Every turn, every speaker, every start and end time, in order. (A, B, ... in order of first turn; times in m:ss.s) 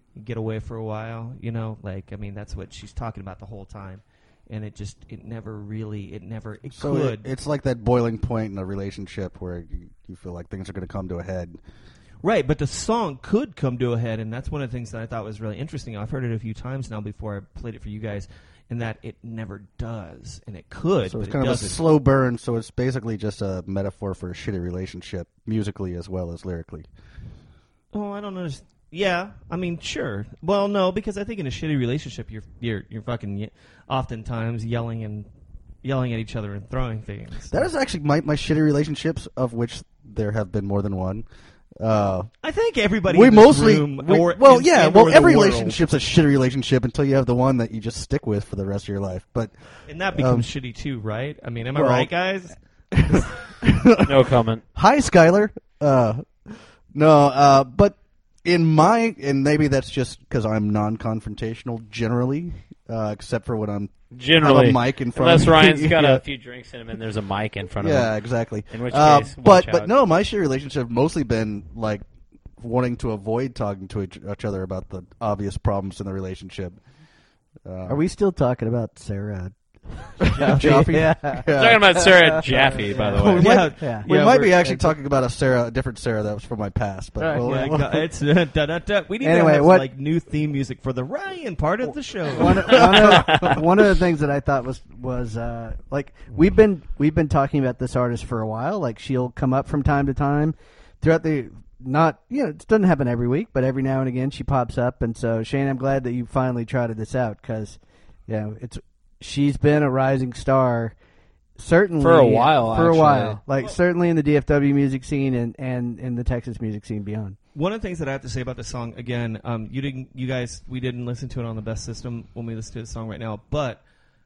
0:00.2-0:07.3 A
0:06.8-0:11.6 B
0:12.2-0:21.8 A
0:21.1-0:26.9 B
0:27.9-0:35.3 A
0:35.8-0:37.7 A
0:37.5-0:41.3 B
0:41.8-0:42.3 B
0:42.4-0:45.8 A
0:43.1-0:49.5 B
0:49.9-0:52.6 A
0:50.1-0:50.5 B
0:51.8-0:52.1 B
0:53.0-0:54.2 B
0:54.0-0:54.6 C
0:54.8-1:06.2 B
1:04.1-1:08.1 C
1:07.8-1:12.1 B
1:08.7-1:09.9 C
1:12.6-1:16.8 B
1:17.6-1:18.0 B
1:17.9-1:25.0 D
1:20.2-1:28.0 B
1:20.3-1:21.0 A
1:21.5-1:23.5 C
1:22.9-1:24.7 A
1:27.2-1:27.8 D
1:27.4-1:33.7 A
1:29.2-1:29.9 D
1:32.3-1:51.0 D
1:32.4-1:33.6 B
1:51.6-1:57.4 D
1:52.0-1:53.4 C
1:57.5-2:03.8 A